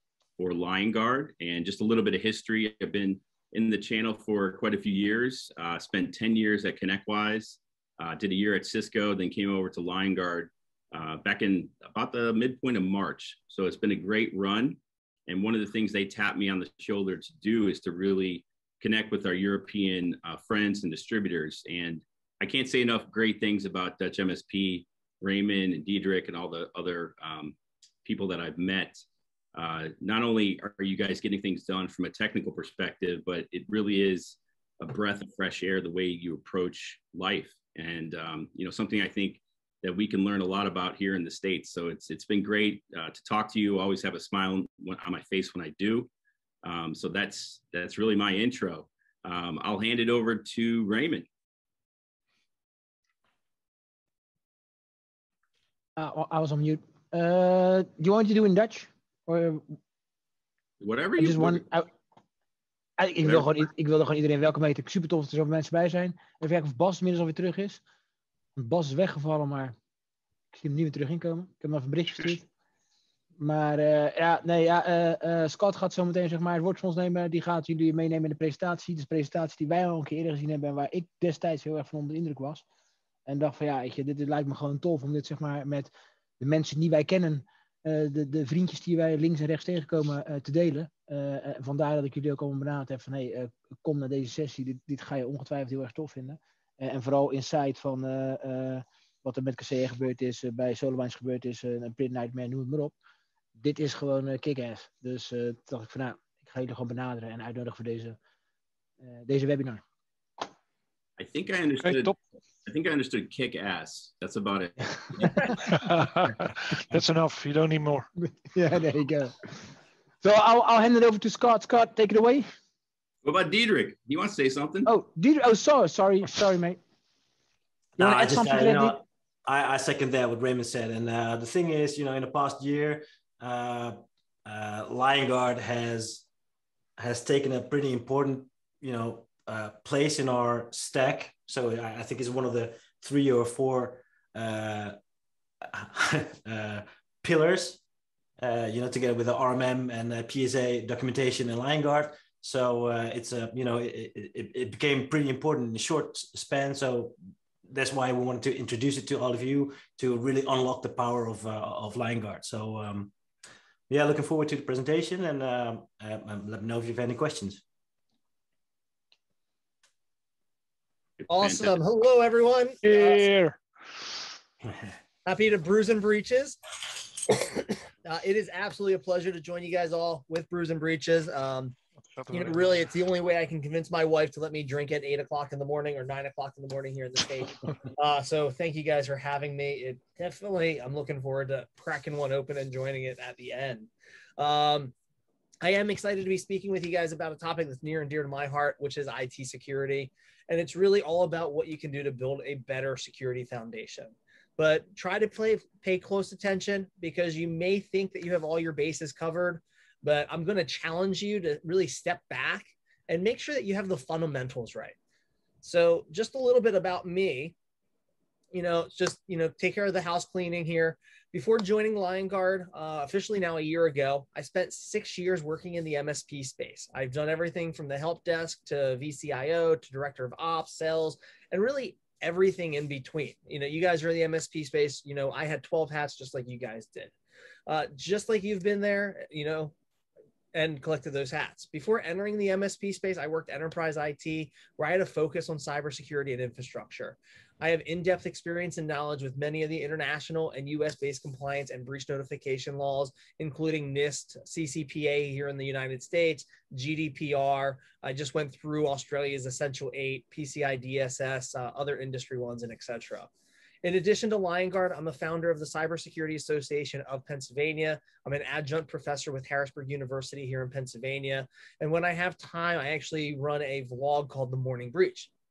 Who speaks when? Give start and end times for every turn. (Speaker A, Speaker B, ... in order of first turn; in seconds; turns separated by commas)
Speaker A: 0.4-29.0, Speaker A: 29.5-46.1, Speaker A: 46.6-51.3, Speaker B: 56.0-59.8, Speaker A: 60.8-61.6, Speaker B: 61.2-61.9, Speaker B: 63.0-67.8, Speaker A: 63.2-63.5, Speaker B: 68.6-69.8, Speaker B: 70.5-72.5, Speaker B: 73.4-82.7, Speaker B: 83.3-102.9, Speaker B: 103.6-108.2, Speaker B: 109.0-109.8, Speaker A: 111.2-115.4, Speaker C: 111.8-112.2, Speaker B: 115.2-115.5, Speaker C: 115.5-118.1, Speaker B: 118.2-119.7, Speaker B: 120.2-122.5, Speaker A: 123.2-124.9, Speaker B: 124.9-126.8, Speaker D: 128.0-136.3, Speaker B: 128.0-129.0, Speaker D: 137.0-145.0, Speaker D: 145.6-147.8, Speaker D: 148.4-163.1, Speaker D: 163.9-167.6, Speaker A: 171.2-171.8, Speaker E: 171.3-173.3, Speaker C: 172.9-173.6, Speaker E: 175.2-176.6, Speaker E: 178.0-181.8, Speaker E: 182.3-194.9, Speaker E: 195.6-215.0, Speaker E: 215.6-217.6, Speaker E: 218.5-237.1, Speaker E: 237.7-239.8, Speaker E: 240.5-263.3, Speaker E: 263.8-275.3